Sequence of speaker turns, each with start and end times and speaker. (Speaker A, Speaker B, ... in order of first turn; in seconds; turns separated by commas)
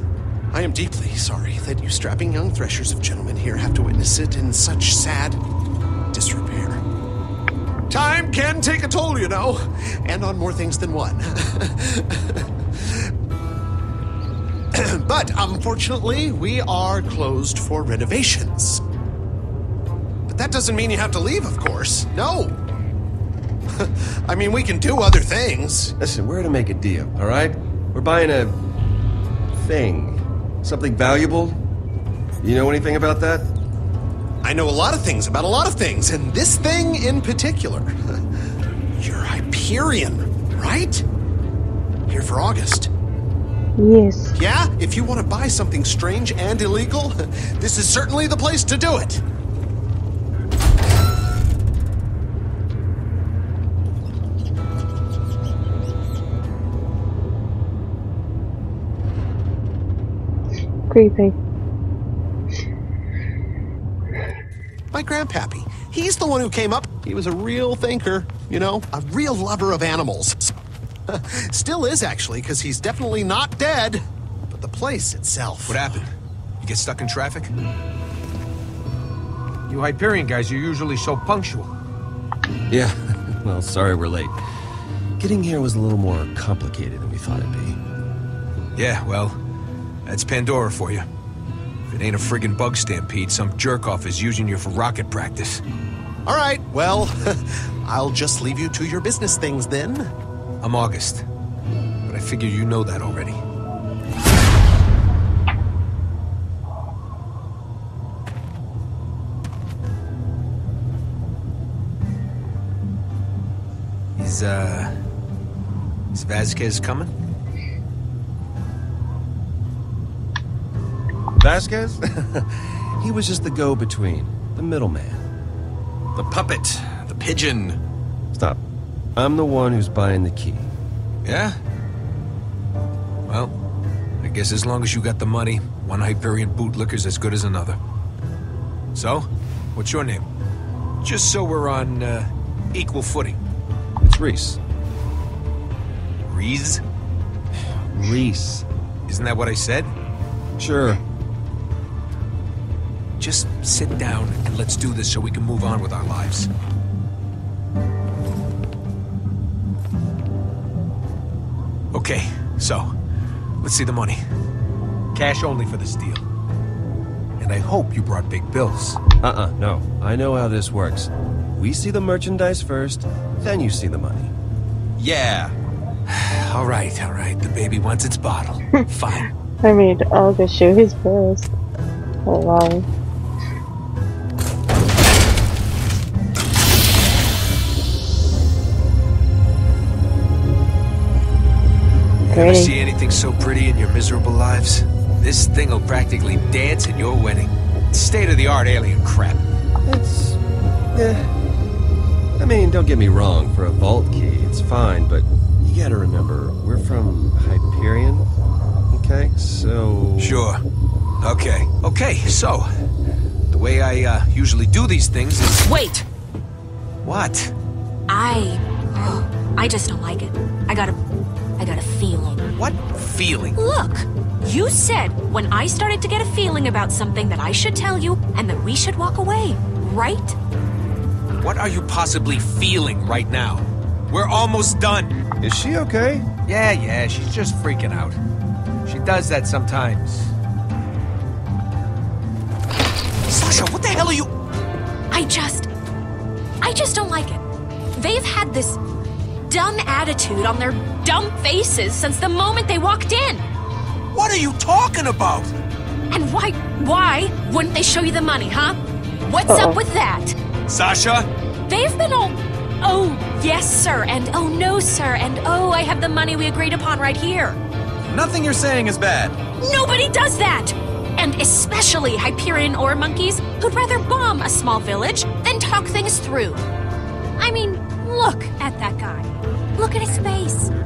Speaker A: 0.5-5.4, Speaker A: 6.1-6.8, Speaker A: 7.9-13.1, Speaker A: 14.7-18.8, Speaker A: 20.3-22.6, Speaker A: 23.7-25.9, Speaker B: 26.0-28.6, Speaker B: 29.6-31.6, Speaker B: 32.4-33.5, Speaker A: 34.4-37.9, Speaker A: 39.0-41.0, Speaker A: 42.1-42.9, Speaker C: 43.8-44.4, Speaker A: 44.4-49.2, Speaker C: 60.9-61.4, Speaker A: 64.9-70.5, Speaker A: 71.1-76.0, Speaker D: 75.6-77.5, Speaker D: 79.7-81.7, Speaker B: 82.7-84.4, Speaker B: 85.2-87.8, Speaker D: 88.8-89.3, Speaker D: 90.0-91.0, Speaker D: 91.9-95.6, Speaker A: 96.2-100.1, Speaker D: 100.6-101.2, Speaker D: 102.1-103.4, Speaker D: 114.2-114.9, Speaker D: 116.1-117.1, Speaker B: 121.4-125.2, Speaker B: 128.3-128.6, Speaker B: 129.2-130.7, Speaker D: 131.2-131.6, Speaker D: 133.3-133.5, Speaker D: 134.2-137.8, Speaker D: 138.9-140.2, Speaker D: 141.0-143.4, Speaker B: 144.0-144.6, Speaker D: 146.3-146.8, Speaker B: 147.9-148.7, Speaker D: 149.1-149.9, Speaker B: 150.6-151.0, Speaker D: 153.2-156.5, Speaker D: 161.9-162.9, Speaker D: 163.6-164.2, Speaker D: 165.1-166.2, Speaker D: 167.4-169.0, Speaker B: 169.2-174.3, Speaker E: 175.0-175.5, Speaker D: 176.1-179.3, Speaker C: 179.6-181.5, Speaker C: 182.2-182.8, Speaker D: 192.3-199.4, Speaker C: 192.3-192.7, Speaker B: 199.8-200.4, Speaker B: 200.9-201.3, Speaker B: 202.4-208.3, Speaker B: 208.9-210.4, Speaker D: 210.2-210.6, Speaker D: 211.2-212.7, Speaker D: 213.5-215.6, Speaker F: 215.6-216.1, Speaker D: 217.0-217.5, Speaker F: 218.1-221.0, Speaker F: 221.6-222.5, Speaker D: 222.6-223.6, Speaker F: 223.6-230.3, Speaker D: 231.4-235.2, Speaker B: 235.4-236.3, Speaker D: 236.4-238.2, Speaker D: 238.8-240.3, Speaker D: 243.3-244.3, Speaker F: 245.1-245.7, Speaker F: 246.6-247.4, Speaker F: 247.9-248.8, Speaker F: 249.5-253.4, Speaker D: 254.1-255.5, Speaker F: 256.1-260.4, Speaker C: 259.4-259.8, Speaker D: 260.7-261.1, Speaker E: 260.8-261.3, Speaker F: 261.7-267.6, Speaker E: 268.1-269.4, Speaker F: 269.6-276.6, Speaker F: 277.4-280.7